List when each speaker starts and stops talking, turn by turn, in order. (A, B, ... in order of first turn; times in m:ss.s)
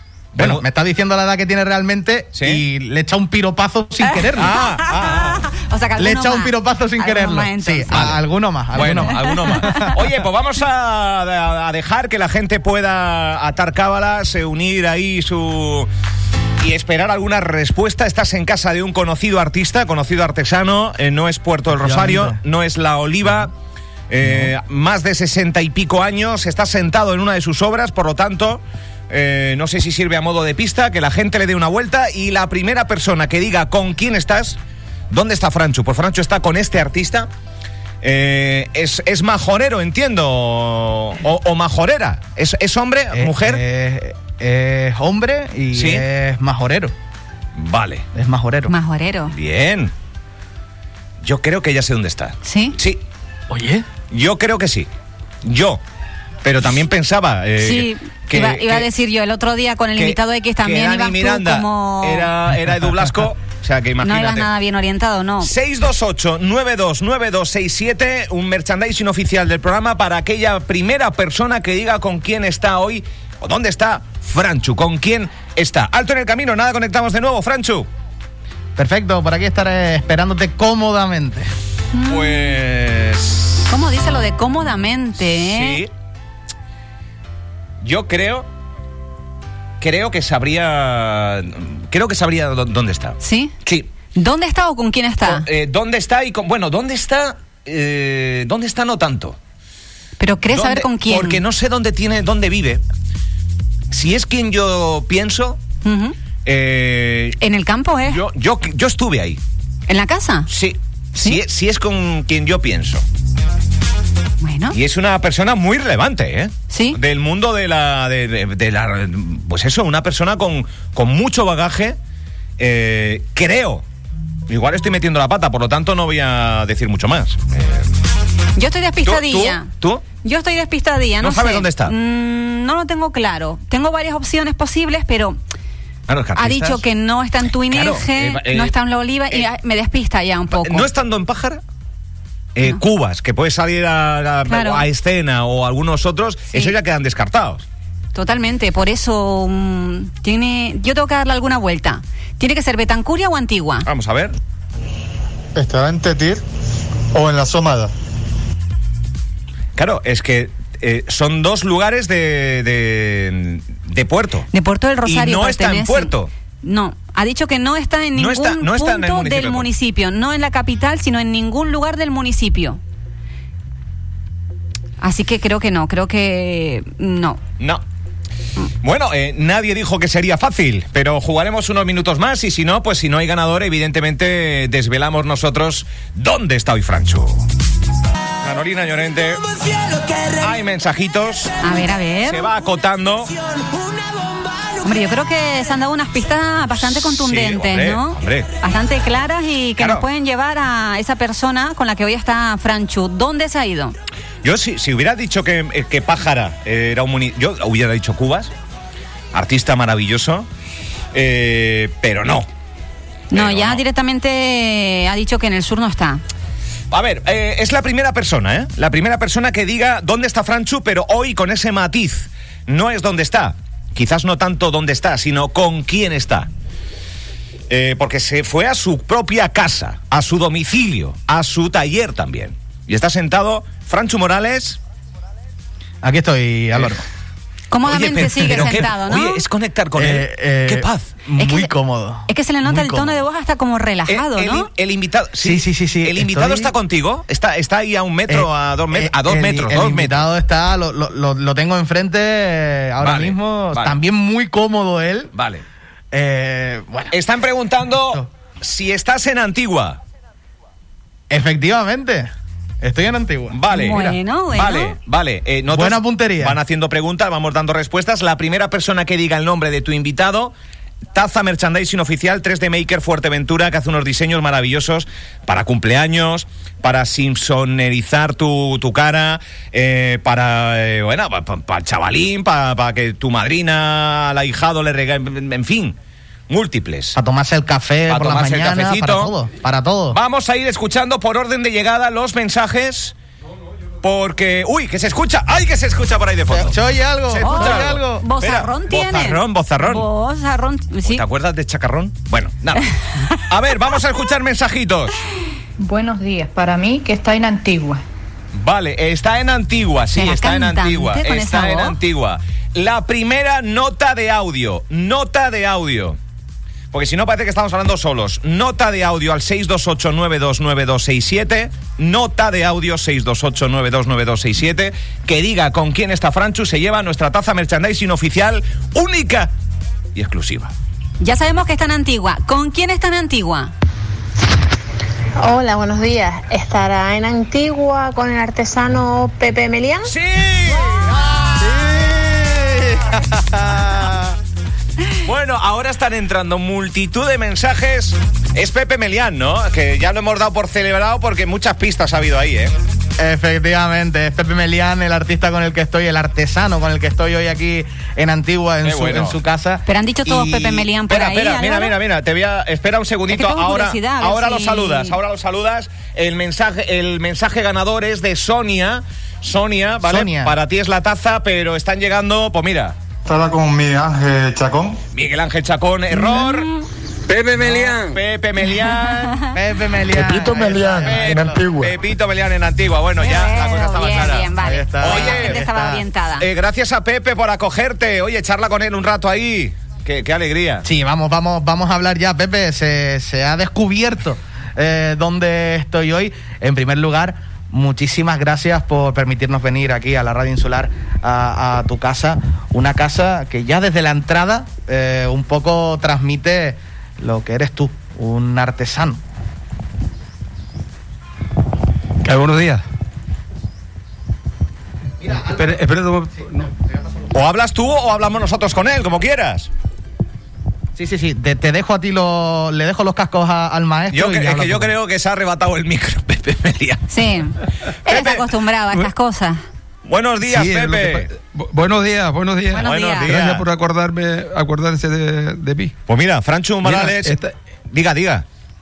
0:00.4-0:00.6 A
0:00.4-0:04.5 B
0:02.3-0:02.6 A
0:04.0-0:08.1 C
0:04.3-0:05.5 A
0:06.0-0:10.0 B
0:07.9-0:08.2 A
0:08.7-0:15.9 A
0:08.9-0:09.9 C
0:16.6-0:23.5 A
0:21.7-0:22.4 B
0:24.1-0:34.6 A
0:24.2-0:24.5 B
0:35.1-0:37.3 A
0:38.0-0:43.6 A
0:43.1-0:46.9 B
0:45.7-0:46.0 A
0:47.6-0:48.0 A
0:48.1-0:48.7 B
0:48.7-0:49.3 C
0:49.3-0:49.9 A
0:51.2-0:53.0 A
0:52.4-0:52.8 C
0:53.5-0:53.8 B
0:54.1-0:54.9 A
0:55.4-0:55.8 A
0:56.4-0:58.9 A
0:57.6-1:02.3 C
1:00.0-1:04.5 A
1:04.0-1:05.5 C
1:05.4-1:17.9 A
1:18.8-1:21.5 B
1:21.9-1:22.6 C
1:22.0-1:23.7 A
1:23.7-1:25.8 C
1:25.2-1:25.9 A
1:27.8-1:28.5 A
1:29.8-1:33.9 A
1:33.2-1:33.6 C
1:34.1-1:35.4 C
1:35.2-1:39.4 A
1:40.2-1:41.4 C
1:40.5-1:42.8 A
1:43.9-1:45.6 A
1:45.8-1:46.2 C
1:46.4-1:47.4 A
1:47.4-1:48.2 C
1:48.0-1:49.4 A
1:49.9-1:50.5 C
1:50.5-1:53.0 A
1:54.4-1:54.8 C
1:54.7-2:02.0 A
1:56.7-1:57.0 C
2:02.6-2:03.8 A
2:04.5-2:07.9 A
2:08.6-2:09.7 C
2:09.0-2:10.0 A
2:10.2-2:15.4 C
2:11.2-2:11.9 A
2:16.1-2:16.8 A
2:16.4-2:20.9 C
2:17.7-2:18.7 A
2:20.5-2:21.6 A
2:22.5-2:27.6 A
2:24.5-2:24.8 C
2:28.1-2:33.9 C
2:33.8-2:34.4 A
2:35.5-2:36.4 D
2:37.1-2:37.9 D
2:39.8-2:44.5 A
2:44.5-2:46.1 C
2:45.0-2:46.3 A
2:46.6-2:52.8 C
2:48.1-2:49.7 A
2:55.0-2:57.4 C
2:58.8-3:07.5 A
3:08.4-3:11.6 A
3:11.6-3:12.5 C
3:12.2-3:13.4 A
3:14.6-3:24.0 C
3:16.9-3:18.5 A
3:19.8-3:20.0 A
3:24.4-3:28.5 A
3:29.3-3:30.5 A
3:31.1-3:32.5 A
3:33.3-3:36.2 C
3:33.3-3:33.8 A
3:36.9-3:46.5 A
3:47.7-3:54.8 A
3:56.0-3:57.0 B
3:57.7-3:59.4 C
3:57.9-4:01.1 A
4:00.0-4:03.2 B
4:01.4-4:01.7 C
4:02.3-4:04.7 C
4:04.1-4:10.3 A
4:05.4-4:06.7 B
4:08.3-4:15.3 B
4:13.0-4:14.0 A
4:15.3-4:15.6 A
4:16.1-4:17.1 B
4:17.1-4:20.0 A
4:21.3-4:22.3 B
4:22.8-4:24.2 B
4:23.5-4:30.5 A
4:23.7-4:24.9 C
4:25.7-4:26.6 B
4:31.1-4:46.0 A
4:46.5-4:47.2 A
4:47.1-4:50.2 B
4:48.1-4:49.3 A
4:50.1-4:53.1 A
4:54.0-5:00.0 A
4:56.5-4:58.2 B
4:57.4-5:01.2 C
5:01.0-5:05.2 A
5:05.8-5:08.0 E
5:08.5-5:16.2 A
5:10.1-5:12.0 C
5:16.9-5:29.5 A
5:30.1-5:30.7 A
5:31.2-5:33.7 C
5:35.4-5:40.1 F
5:40.0-5:41.9 A
5:41.0-5:44.4 B
5:45.2-5:52.8 A
5:53.2-6:00.9 B
5:58.8-5:59.4 A
5:59.8-6:02.0 C
6:01.1-6:13.0 A
6:03.3-6:05.2 C
6:10.0-6:10.5 B
6:13.2-6:15.0 D
6:15.1-6:16.7 A
6:17.3-6:18.2 D
6:17.6-6:19.5 A
6:19.0-6:19.5 C
6:19.5-6:21.6 B
6:20.1-6:22.0 D
6:20.8-6:25.6 A
6:23.2-6:26.5 C
6:24.6-6:26.0 B
6:26.4-6:30.8 A
6:30.8-6:49.2 B
6:52.2-6:52.8 G
6:55.2-6:55.6 B
6:55.2-6:56.7 G
6:57.3-6:59.7 A
7:01.0-7:04.9 B
7:04.1-7:07.0 A
7:07.1-7:09.6 C
7:08.0-7:08.4 A
7:10.0-7:11.3 A
7:10.4-7:16.0 G
7:12.7-7:13.3 C
7:12.8-7:13.6 A
7:16.1-7:17.4 A
7:16.8-7:17.5 G
7:17.9-7:18.4 A